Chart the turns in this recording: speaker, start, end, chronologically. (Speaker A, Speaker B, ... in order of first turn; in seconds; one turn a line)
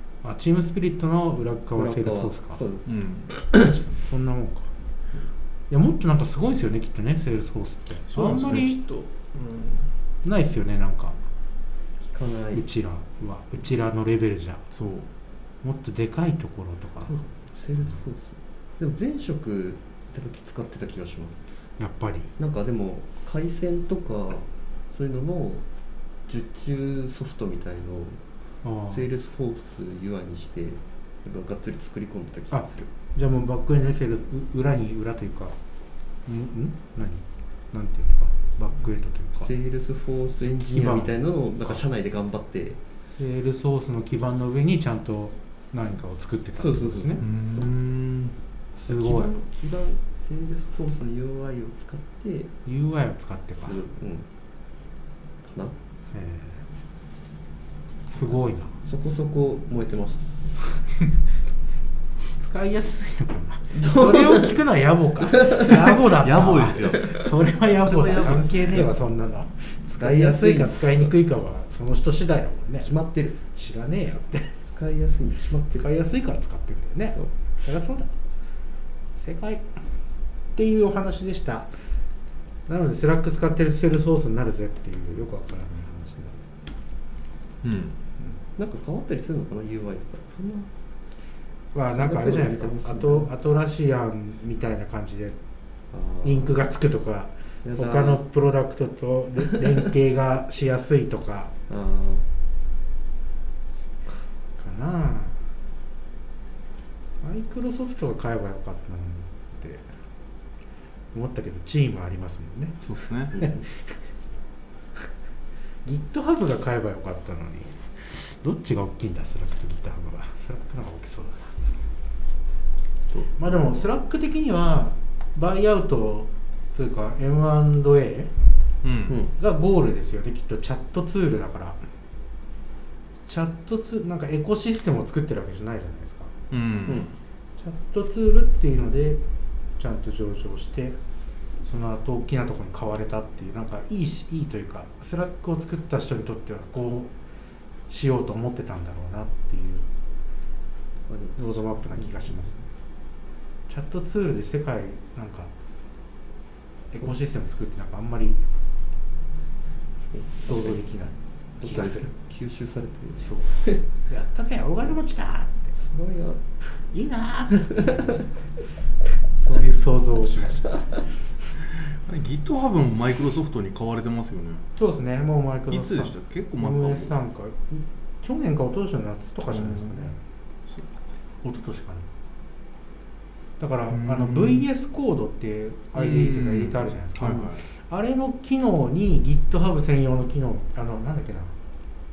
Speaker A: 0.2-2.6
Speaker B: 1.8-3.6
Speaker C: 2.9-3.3
Speaker A: 3.5-4.7
Speaker A: 5.7-8.8
Speaker C: 8.1-9.9
Speaker A: 10.2-11.2
Speaker B: 12.0-12.7
Speaker A: 12.5-14.6
Speaker C: 14.7-15.1
Speaker A: 15.6-17.2
Speaker B: 17.1-21.4
Speaker A: 21.8-22.3
Speaker B: 22.4-25.6
Speaker B: 26.3-28.2
Speaker A: 28.6-29.1
Speaker B: 28.8-32.9
Speaker A: 32.5-35.6
Speaker A: 36.3-39.5
Speaker B: 39.4-42.8
Speaker A: 40.7-41.1
Speaker A: 43.1-47.2
Speaker B: 46.6-47.3
Speaker C: 47.2-48.4
Speaker B: 48.8-52.5
Speaker A: 48.8-49.3
Speaker A: 52.7-53.8
Speaker B: 53.6-54.3
Speaker B: 55.4-55.8
Speaker A: 56.1-56.6
Speaker A: 58.1-58.7
Speaker B: 58.8-60.2
Speaker A: 62.4-72.9
Speaker B: 63.7-64.6
Speaker B: 65.3-66.0
Speaker C: 66.0-68.9
Speaker B: 66.8-67.2
Speaker B: 70.0-71.1
Speaker B: 72.8-73.4
Speaker A: 73.5-74.5
Speaker B: 74.7-75.9
Speaker A: 75.7-78.1
Speaker A: 79.2-79.7
Speaker A: 80.5-81.7
Speaker A: 82.7-86.4
Speaker C: 87.6-88.0
Speaker B: 88.6-90.7
Speaker A: 91.7-95.4
Speaker B: 91.9-93.3
Speaker B: 95.9-96.6
Speaker A: 96.2-101.5
Speaker B: 97.6-98.2
Speaker B: 101.7-102.2
Speaker A: 104.6-105.4
Speaker A: 107.2-109.9
Speaker A: 111.1-112.8
Speaker C: 112.8-113.3
Speaker B: 113.3-113.6
Speaker A: 113.3-114.0
Speaker A: 115.8-121.5
Speaker A: 123.4-128.3
Speaker C: 128.8-129.2
Speaker B: 129.1-129.3
Speaker A: 129.4-131.8
Speaker A: 133.3-136.3
Speaker C: 136.5-137.1
Speaker A: 137.6-139.2
Speaker A: 139.8-141.0
Speaker A: 141.6-147.1
Speaker A: 147.9-149.9
Speaker B: 151.1-152.5
Speaker A: 151.4-152.6
Speaker A: 153.7-155.5
Speaker A: 156.9-158.4
Speaker B: 160.1-160.8
Speaker A: 160.4-162.1
Speaker B: 161.6-163.8
Speaker A: 163.2-165.7
Speaker B: 165.8-166.4
Speaker A: 166.9-168.2
Speaker B: 167.6-168.2
Speaker A: 169.4-171.0
Speaker C: 171.7-174.6
Speaker A: 174.8-180.2
Speaker C: 175.7-177.2
Speaker C: 179.5-180.1
Speaker A: 181.4-182.1
Speaker A: 183.6-191.6
Speaker C: 183.9-184.7
Speaker C: 185.9-187.6